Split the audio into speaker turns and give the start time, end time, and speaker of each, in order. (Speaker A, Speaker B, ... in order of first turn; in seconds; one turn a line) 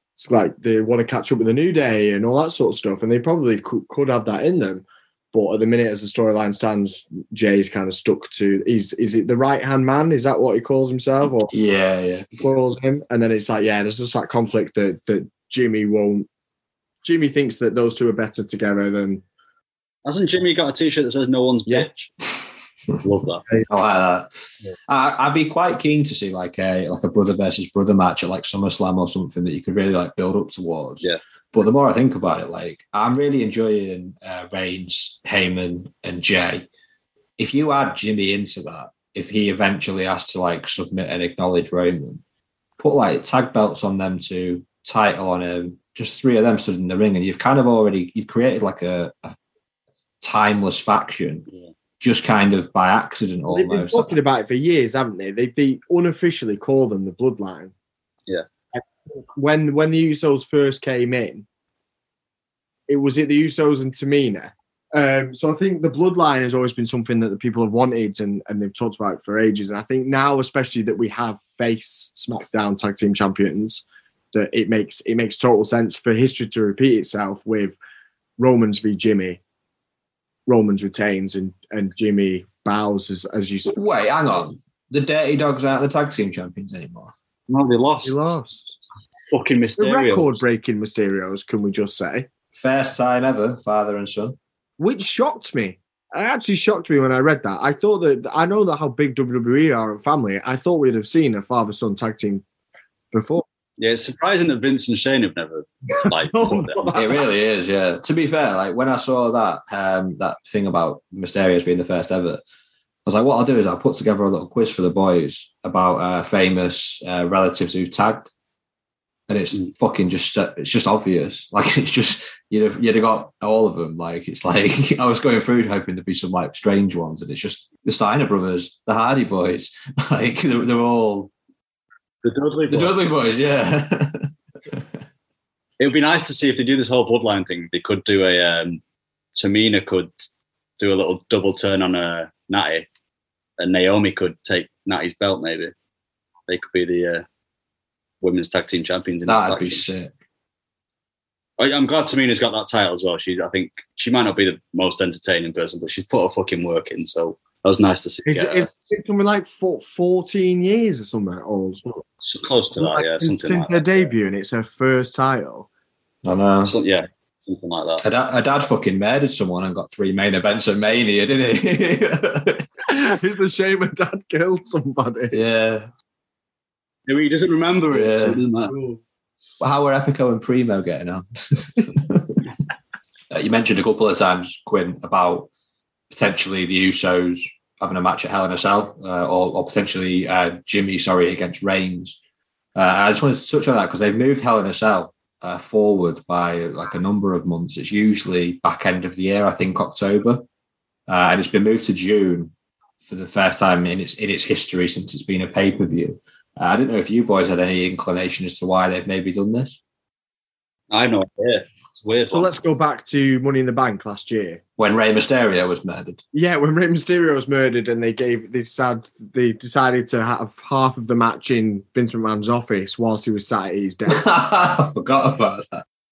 Speaker A: 0.2-11.5
Speaker B: 11.5-12.4
Speaker A: 12.4-16.3
Speaker A: 17.0-19.2
Speaker C: 20.1-22.1
Speaker C: 23.0-23.4
Speaker B: 23.7-24.3
Speaker B: 24.9-36.7
Speaker B: 37.4-42.2
Speaker B: 42.8-49.4
Speaker B: 50.2-51.5
Speaker B: 52.0-54.2
Speaker A: 53.5-57.7
Speaker A: 58.7-61.5
Speaker A: 62.9-77.8
Speaker A: 78.4-79.4
Speaker A: 80.5-83.8
Speaker B: 83.7-87.1
Speaker C: 87.5-88.4
Speaker A: 88.0-88.8
Speaker C: 89.3-90.3
Speaker A: 89.8-92.3
Speaker B: 92.5-94.4
Speaker A: 94.8-102.4
Speaker A: 103.1-103.5
Speaker C: 103.8-106.9
Speaker A: 106.0-107.2
Speaker B: 106.9-112.4
Speaker B: 113.1-118.3
Speaker B: 119.3-131.3
Speaker C: 132.2-132.9
Speaker B: 132.7-135.0
Speaker C: 135.8-138.8
Speaker C: 139.3-140.1
Speaker C: 140.8-142.9
Speaker C: 143.6-145.7
Speaker C: 146.5-147.3
Speaker C: 148.2-149.8
Speaker B: 149.3-150.2
Speaker C: 151.6-158.7
Speaker A: 158.3-162.0
Speaker C: 162.2-164.1
Speaker A: 162.8-165.7
Speaker B: 166.2-166.8
Speaker C: 166.6-168.0
Speaker B: 168.0-172.6
Speaker A: 172.9-175.3
Speaker B: 175.3-175.9
Speaker C: 177.1-178.8
Speaker B: 177.9-178.4
Speaker A: 178.7-179.0
Speaker B: 179.6-182.4
Speaker B: 183.3-185.5
Speaker B: 186.1-192.2
Speaker B: 192.8-200.4
Speaker B: 201.1-202.5
Speaker B: 203.0-209.8
Speaker C: 210.9-212.5
Speaker A: 212.3-214.6
Speaker B: 214.8-216.2
Speaker A: 216.3-224.2
Speaker B: 224.1-225.8